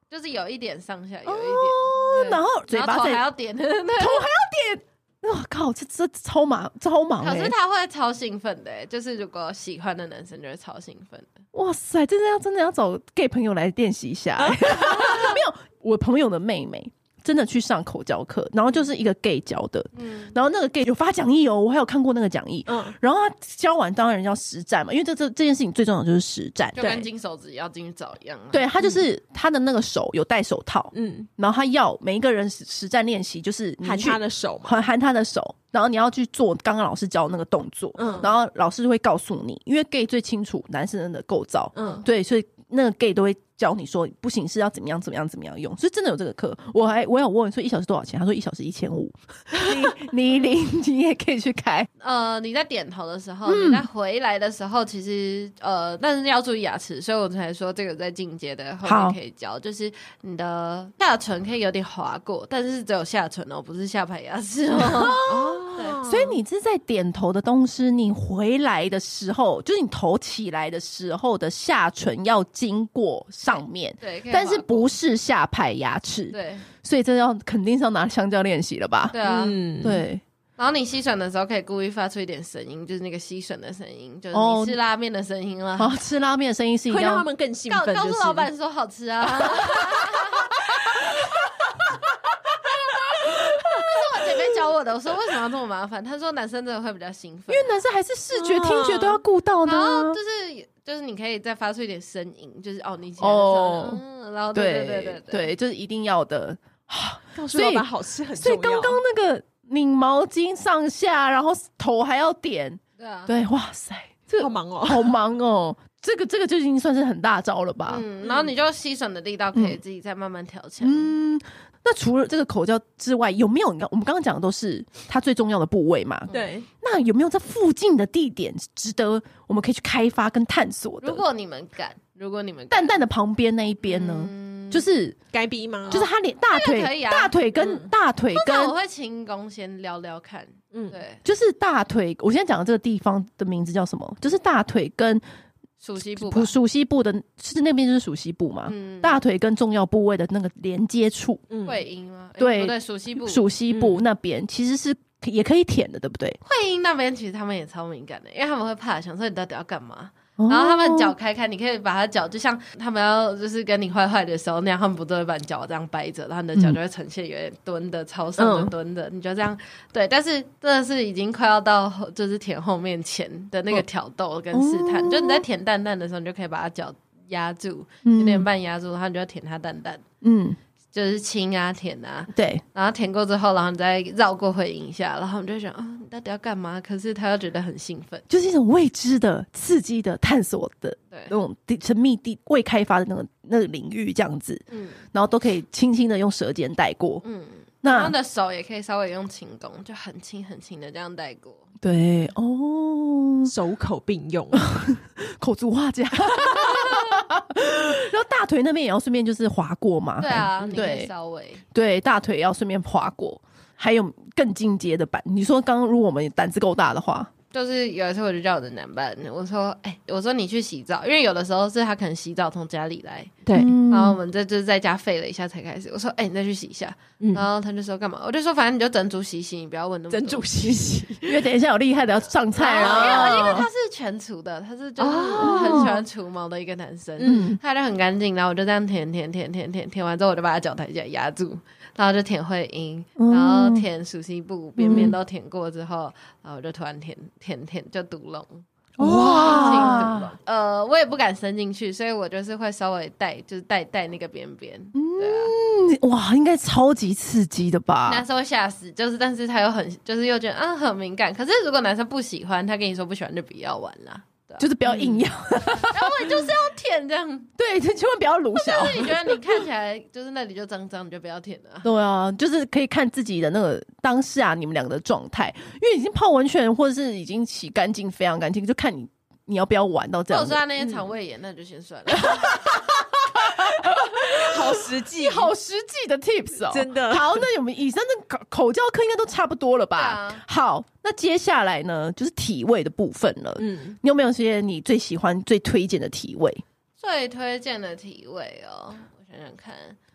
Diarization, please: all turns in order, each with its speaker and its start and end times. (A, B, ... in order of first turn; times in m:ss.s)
0:00.1-0:04.2 A
0:01.3-0:03.2 B
0:04.0-0:07.6 B
0:07.2-0:11.3 A
0:11.5-0:26.8 B
0:14.4-0:15.4 C
0:20.0-0:20.4 A
0:22.7-0:23.0 C
0:26.8-0:28.7 A
0:26.8-0:27.1 C
0:28.5-0:51.9 B
0:30.9-0:31.3 C
0:33.8-0:34.8 C
0:38.0-0:38.3 C
0:41.8-0:42.0 C
0:52.0-1:05.2 A
0:53.5-0:53.9 B
0:58.8-0:59.2 B
1:04.7-1:19.2 B
1:05.3-1:06.4 C
1:14.0-1:14.9 A
1:16.3-1:16.7 A
1:19.1-1:19.6 A
1:19.2-1:20.0 C
1:19.8-1:20.2 B
1:20.6-1:26.0 A
1:24.3-1:24.8 B
1:25.8-1:27.3 B
1:26.9-1:28.5 C
1:27.7-1:30.8 A
1:30.8-1:31.3 B
1:32.9-1:37.8 A
1:33.2-1:33.9 B
1:37.5-1:40.2 B
1:38.3-1:39.2 C
1:39.6-1:45.5 A
1:43.2-1:44.0 B
1:44.6-1:58.0 B
1:47.4-1:49.0 C
1:53.0-1:53.3 A
1:54.4-1:55.1 C
1:57.9-2:01.1 A
1:59.5-1:59.8 B
2:00.8-2:11.2 B
2:06.3-2:06.7 C
2:11.0-2:13.0 A
2:12.7-2:15.2 B
2:13.8-2:14.9 A
2:15.3-2:16.0 C
2:15.9-2:18.7 B
2:15.9-2:17.4 A
2:17.6-2:17.9 C
2:18.3-2:21.2 A
2:20.7-2:21.0 C
2:21.2-2:25.2 B
2:25.8-2:26.5 A
2:26.1-2:31.4 B
2:28.7-2:29.2 A
2:31.5-2:31.8 C
2:31.7-2:33.4 A
2:32.4-2:36.4 B
2:33.7-2:34.0 C
2:36.4-3:00.0 A
2:40.4-2:41.1 B
2:48.4-2:48.7 C
2:54.5-2:55.4 B
2:58.0-2:58.5 B
3:00.2-3:00.6 B
3:00.9-3:08.3 A
3:02.3-3:02.6 B
3:08.3-3:17.2 B
3:14.7-3:15.0 A
3:17.2-3:21.7 A
3:17.8-3:18.1 B
3:21.8-3:23.5 B
3:23.5-3:24.6 C
3:24.5-3:31.1 B
3:30.2-3:31.6 A
3:31.7-3:37.3 B
3:37.5-3:50.8 A
3:43.5-3:43.7 C
3:43.5-3:44.2 B
3:47.2-3:47.4 C
3:50.1-3:51.5 C
3:51.2-3:53.7 B
3:52.5-4:08.6 A
3:52.8-3:53.6 C
3:55.0-3:56.0 C
3:55.4-3:56.0 B
3:57.2-3:57.5 C
3:57.2-3:57.6 B
4:03.2-4:03.8 B
4:04.8-4:05.2 B
4:04.8-4:05.1 C
4:09.0-4:10.3 B
4:09.0-4:10.1 C
4:09.2-4:15.5 A
4:14.9-4:18.2 B
4:18.1-4:25.1 A
4:24.6-4:26.5 B
4:24.9-4:25.1 C
4:25.7-4:27.5 A
4:27.6-4:29.6 B
4:28.6-4:31.9 A
4:31.8-4:40.6 B
4:40.3-4:42.8 A
4:42.1-4:56.6 B
4:44.1-4:45.5 C
4:46.7-4:47.4 C
4:50.0-4:50.4 A
4:53.6-4:54.0 C
4:57.0-5:00.0 A